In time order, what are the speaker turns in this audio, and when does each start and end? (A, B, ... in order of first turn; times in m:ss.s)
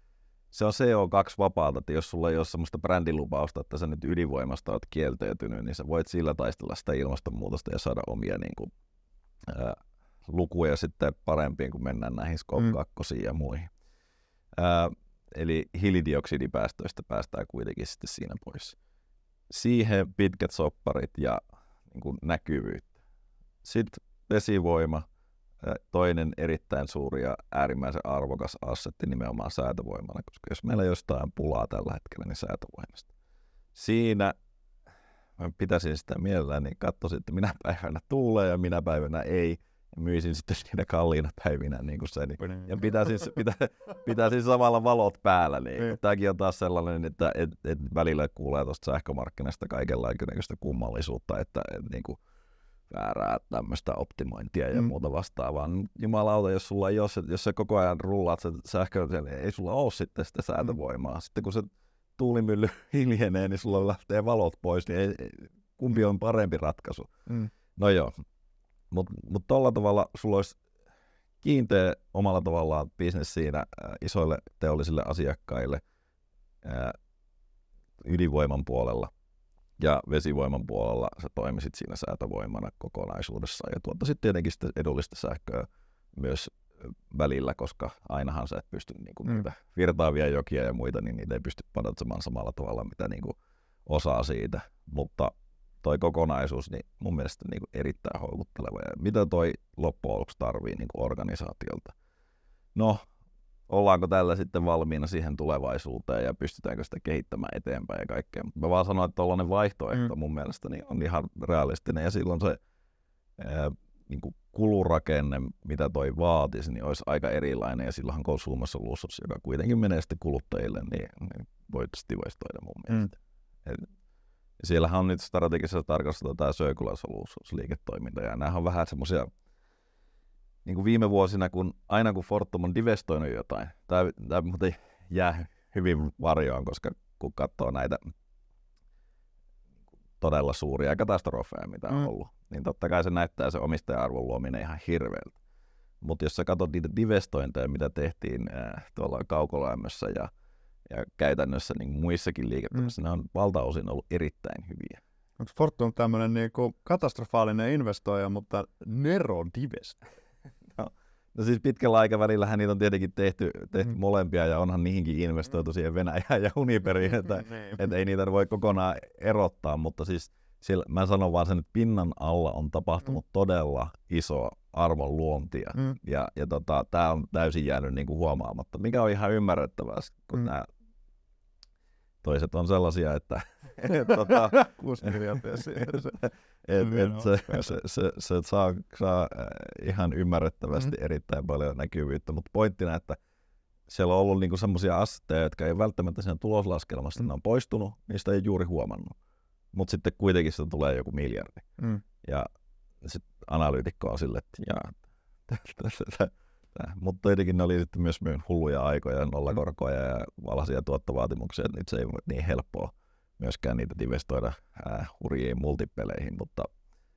0:00.5-0:08.7 A
0:09.5-0:13.7 A
0:14.6-0:18.8 A
0:19.5-0:22.9 A
0:23.6-0:25.0 A
0:25.6-0:33.1 A
0:33.7-0:34.3 A
0:35.4-0:52.2 A
0:42.4-0:42.7 B
0:52.9-1:07.1 A
1:07.8-1:08.1 A
1:08.9-1:10.6 A
1:11.4-1:15.8 A
1:16.6-1:17.0 A
1:18.0-1:19.1 A
1:19.8-1:33.4 A
1:33.9-1:35.3 A
1:35.8-1:41.9 A
1:43.7-1:52.6 A
1:53.4-2:03.9 A
2:04.6-2:09.3 A
2:10.6-2:18.0 A
2:20.2-2:25.4 A
2:26.0-2:30.3 A
2:30.9-2:35.0 A
2:35.4-2:40.0 B
2:40.7-3:00.7 A
2:47.5-2:47.7 B
3:02.2-3:13.2 A
3:04.2-3:06.1 B
3:06.8-3:07.7 B
3:13.9-3:19.1 A
3:19.7-3:21.6 A
3:23.0-3:24.9 A
3:25.5-3:36.7 A